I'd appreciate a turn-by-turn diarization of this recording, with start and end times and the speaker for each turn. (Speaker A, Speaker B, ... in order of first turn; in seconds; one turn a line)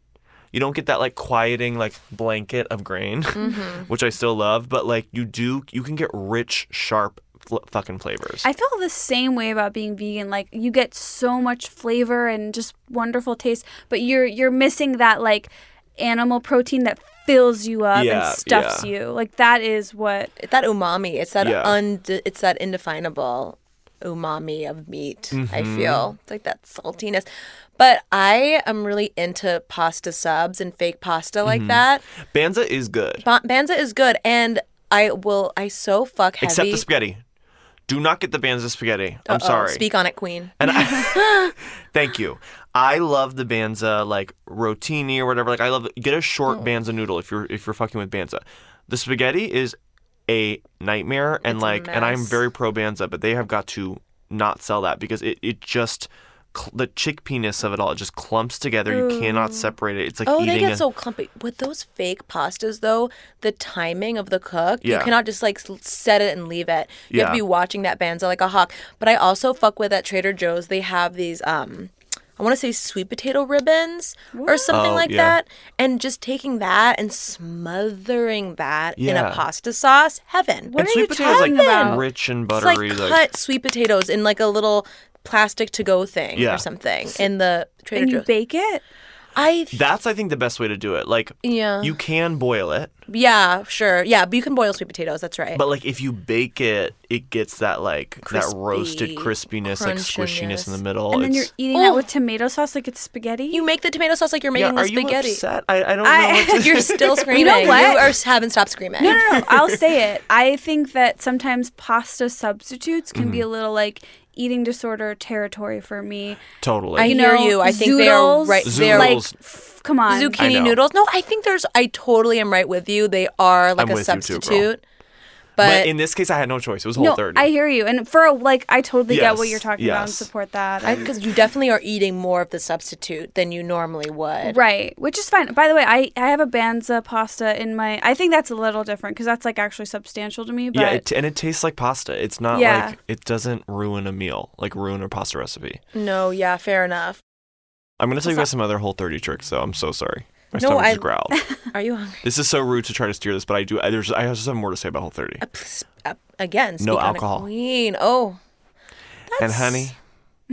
Speaker A: 0.5-8.5
Speaker B: 3.4-3.9
Speaker C: 8.4-20.3
Speaker A: 17.9-18.9
Speaker B: 20.4-27.2
Speaker A: 21.4-21.8
Speaker A: 25.3-26.1
Speaker B: 27.8-32.0
Speaker A: 31.4-33.2
Speaker B: 33.2-36.9
Speaker A: 36.4-37.2
Speaker A: 37.9-39.9
Speaker B: 39.3-41.5
Speaker A: 40.6-49.8
Speaker A: 50.3-60.8
Speaker B: 51.4-52.4
Speaker B: 59.0-59.5
Speaker B: 60.2-88.3
Speaker A: 64.8-65.1
Speaker A: 67.1-67.4
Speaker C: 74.3-74.8
Speaker A: 74.7-75.4
Speaker A: 79.0-79.4
Speaker C: 80.7-82.0
Speaker A: 80.8-83.2
Speaker A: 86.3-86.7
Speaker C: 87.9-88.8
Speaker B: 89.3-89.8
Speaker A: 89.7-92.9
Speaker B: 91.4-92.0
Speaker B: 93.1-95.6
Speaker A: 95.5-101.5
Speaker B: 98.2-100.8
Speaker C: 101.1-103.7
Speaker B: 101.7-102.0
Speaker B: 103.5-105.4
Speaker A: 104.5-108.2
Speaker C: 106.0-106.7
Speaker B: 106.5-109.2
Speaker C: 107.3-108.1
Speaker C: 109.0-116.4
Speaker A: 109.0-109.8
Speaker A: 113.1-113.5
Speaker A: 116.6-117.2
Speaker B: 117.0-119.2
Speaker C: 117.0-120.4
Speaker A: 118.6-119.4
Speaker B: 120.1-124.8
Speaker A: 120.4-120.8
Speaker A: 123.8-124.7
Speaker B: 125.6-125.9
Speaker A: 125.6-127.5
Speaker C: 127.0-131.1
Speaker A: 129.1-130.3
Speaker B: 130.8-134.6
Speaker C: 134.4-141.0
Speaker A: 140.7-145.8
Speaker C: 142.5-142.9
Speaker B: 145.9-147.2
Speaker A: 148.0-151.4
Speaker B: 150.6-151.1
Speaker B: 151.7-152.2
Speaker A: 152.2-155.4
Speaker B: 155.4-158.4
Speaker A: 156.8-157.5
Speaker B: 159.3-159.9
Speaker A: 159.4-160.0